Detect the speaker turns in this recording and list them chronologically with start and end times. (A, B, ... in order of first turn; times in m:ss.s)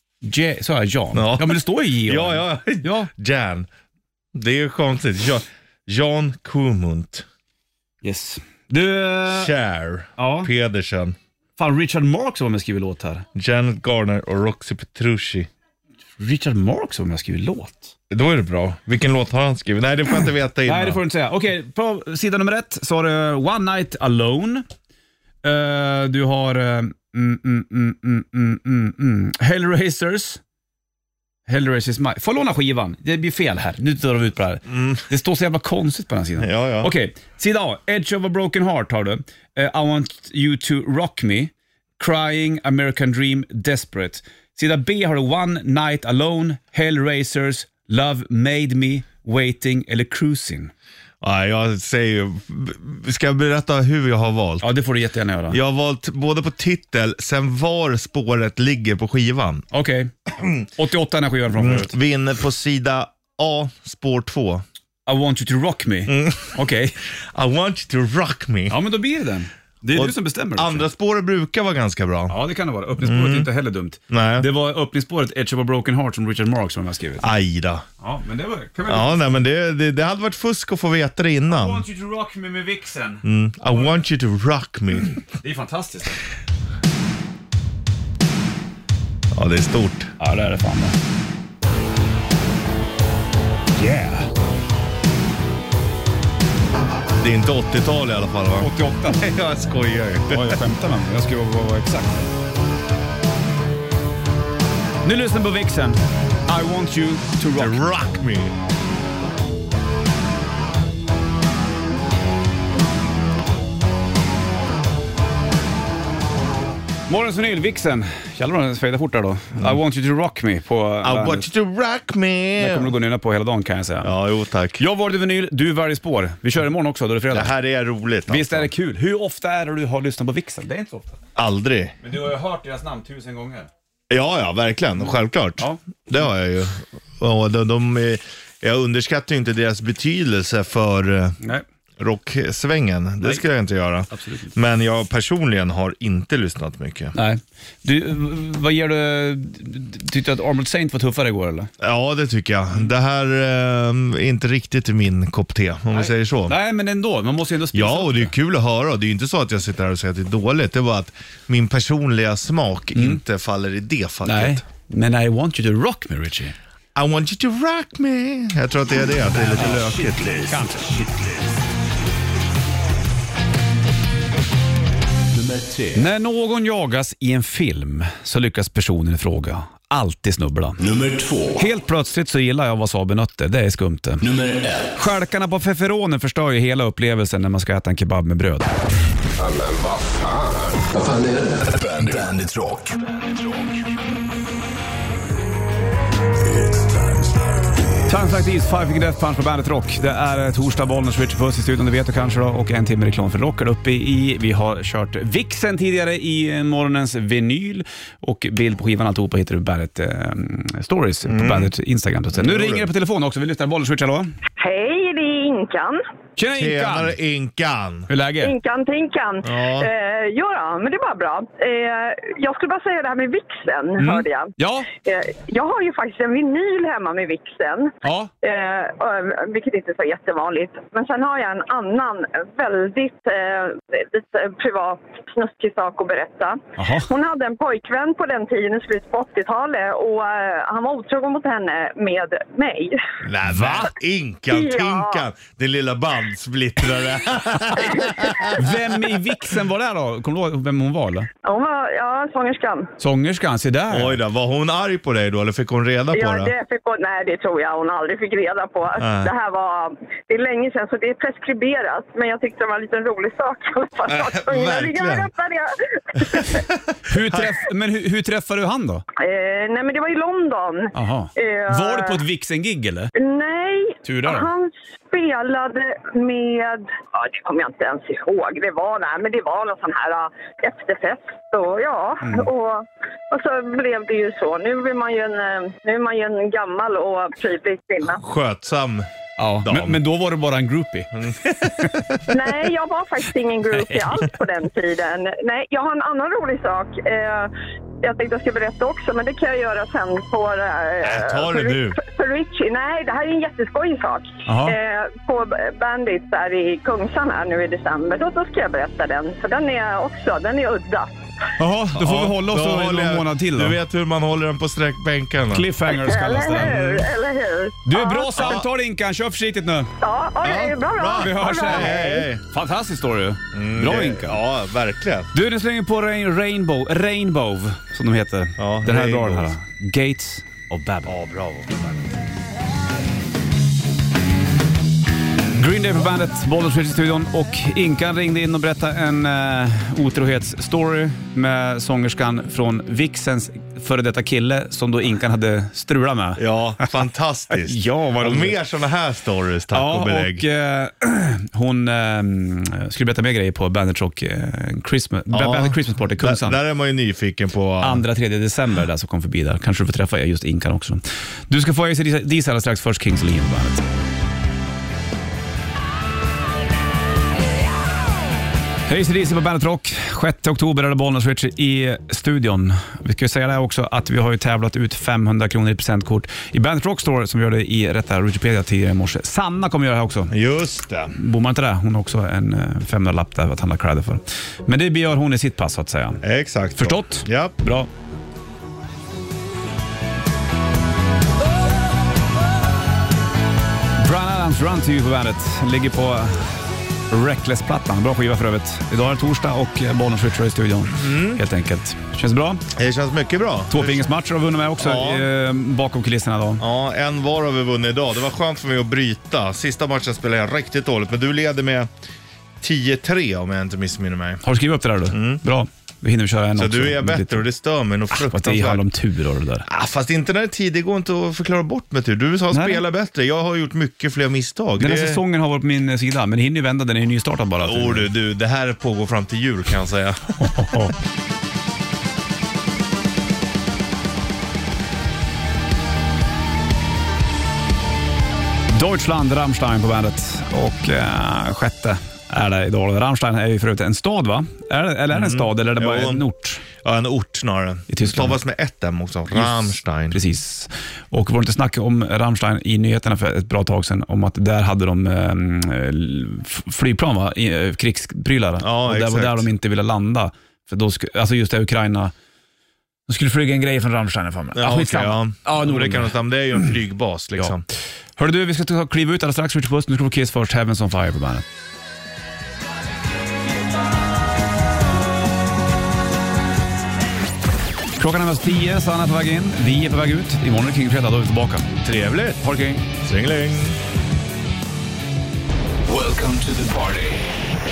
0:00.2-0:03.1 A
0:01.1-0:03.7 B
0:04.3-0:07.2 B
0:08.0-0:09.5 A
0:09.3-0:11.2 B
0:10.2-0:10.5 A
0:11.6-0:13.2 A
0:13.3-0:15.5 B
0:16.2-0:17.9 A
0:18.1-0:21.0 B
0:20.6-0:24.6 A
0:25.4-0:30.4 A
0:31.5-0:50.7 A
0:34.7-0:35.0 B
0:36.4-0:36.9 B
0:51.2-0:54.7 B
0:54.6-0:55.6 A
0:55.5-0:59.7 B
0:59.7-1:00.1 A
1:00.4-1:00.6 B
1:00.7-1:01.9 A
1:01.5-1:04.6 B
1:05.0-1:07.0 A
1:06.1-1:06.6 B
1:07.2-1:08.8 B
1:08.7-1:10.8 A
1:09.9-1:12.3 B
1:12.3-1:17.2 A
1:13.0-1:13.5 B
1:14.1-1:14.5 B
1:17.2-1:17.8 B
1:18.0-1:19.3 A
1:18.9-1:21.8 B
1:21.5-1:23.2 A
1:23.2-1:25.2 B
1:25.0-1:26.2 A
1:29.3-1:30.1 B
1:30.2-1:31.0 A
1:33.7-1:34.3 A
1:37.2-1:40.6 B
1:38.6-1:39.3 A
1:40.3-1:42.3 A
1:45.0-1:47.8 A
1:47.5-1:48.5 B
1:57.1-2:01.4 A
2:01.0-2:03.0 B
2:02.6-2:04.1 A
2:04.0-2:04.8 B
2:04.8-2:07.5 A
2:07.3-2:08.7 B
2:08.3-2:11.2 A
2:11.4-2:11.9 B
2:12.0-2:13.7 A
2:14.1-2:21.4 B
2:22.0-2:27.1 B
2:24.1-2:24.5 A
2:27.1-2:31.7 A
2:31.8-2:36.5 B
2:35.9-2:38.3 A
2:37.7-2:44.6 B
2:42.9-2:43.2 A
2:44.2-2:46.6 A
2:47.0-2:50.3 B
2:49.4-2:50.9 A
2:49.4-2:51.5 C
2:55.3-2:56.1 C
2:55.9-3:00.8 A
3:00.8-3:01.6 C
3:01.6-3:04.2 A
3:04.2-3:04.9 C
3:04.9-3:08.7 A
3:09.4-3:13.9 C
3:16.5-3:17.8 C
3:18.1-3:34.3 A
3:31.2-3:31.7 B
3:32.3-3:32.9 B
3:34.6-3:36.0 D
3:36.4-3:37.1 A
3:36.5-3:38.1 B
3:38.1-3:38.5 A
3:38.4-4:03.0 D
3:39.4-3:39.9 B
3:44.0-3:44.9 A
3:48.0-3:48.3 A
3:56.8-3:57.1 A
4:03.2-4:08.6 B
4:03.5-4:03.9 A
4:04.5-4:05.3 D
4:07.9-4:08.5 D
4:08.5-4:11.3 A
4:11.4-4:12.9 D
4:13.0-4:14.2 A
4:13.9-4:16.5 B
4:16.1-4:26.6 D
4:19.0-4:19.3 B
4:24.1-4:25.3 B
4:27.1-4:29.0 A
4:29.2-4:32.2 D
4:30.9-4:33.1 A
4:33.2-4:48.2 D
4:34.0-4:34.5 A
4:42.2-4:42.5 A
4:48.2-4:49.1 B
4:49.4-4:52.0 A
4:49.6-4:50.0 B
4:51.1-4:52.2 B
4:52.3-5:11.1 D
4:53.7-4:54.3 A
5:01.0-5:02.0 B
5:04.5-5:04.8 A
5:11.6-5:13.8 A
5:11.9-5:15.7 B
5:15.5-5:17.1 A
5:15.8-5:18.3 D
5:17.8-5:19.9 A
5:18.4-5:18.6 B
5:20.0-5:22.3 D
5:20.4-5:22.4 B
5:21.2-5:24.4 A
5:23.5-5:25.3 B
5:25.3-5:31.1 A
5:28.6-5:29.5 B
5:31.0-5:32.0 B
5:35.5-5:46.9 A
5:46.4-5:50.4 B
5:47.5-5:48.6 A
5:49.7-5:56.6 A
5:55.3-5:58.0 B
5:57.8-6:03.8 A
6:08.9-6:20.3 A
6:20.3-6:21.1 B
6:21.1-6:26.2 A
6:26.2-6:27.5 B
6:26.8-6:27.9 A
6:34.0-6:36.5 A
6:37.1-6:42.6 A
6:40.9-6:41.4 B
6:42.7-6:44.1 B
6:43.7-6:46.6 A
6:44.8-6:45.3 B
6:46.6-6:51.9 B
6:52.6-6:54.4 B
6:54.4-6:57.4 A
6:55.1-6:55.4 B
6:56.6-6:58.9 B
6:58.2-6:59.7 A
6:59.6-7:05.2 B
7:02.5-7:02.8 A
7:04.8-7:08.1 A
7:07.6-7:10.6 B
7:10.4-7:10.9 A
7:18.7-7:26.6 A
7:25.1-7:30.2 B
7:27.9-7:28.4 A
7:29.3-7:42.1 A
7:38.6-7:39.5 B
7:43.1-7:46.7 A
7:44.5-7:47.6 B
7:48.2-7:51.4 A
7:58.0-8:01.7 A
8:01.8-8:02.4 B
8:02.4-8:02.8 A
8:03.0-8:03.8 B
8:05.8-8:07.3 C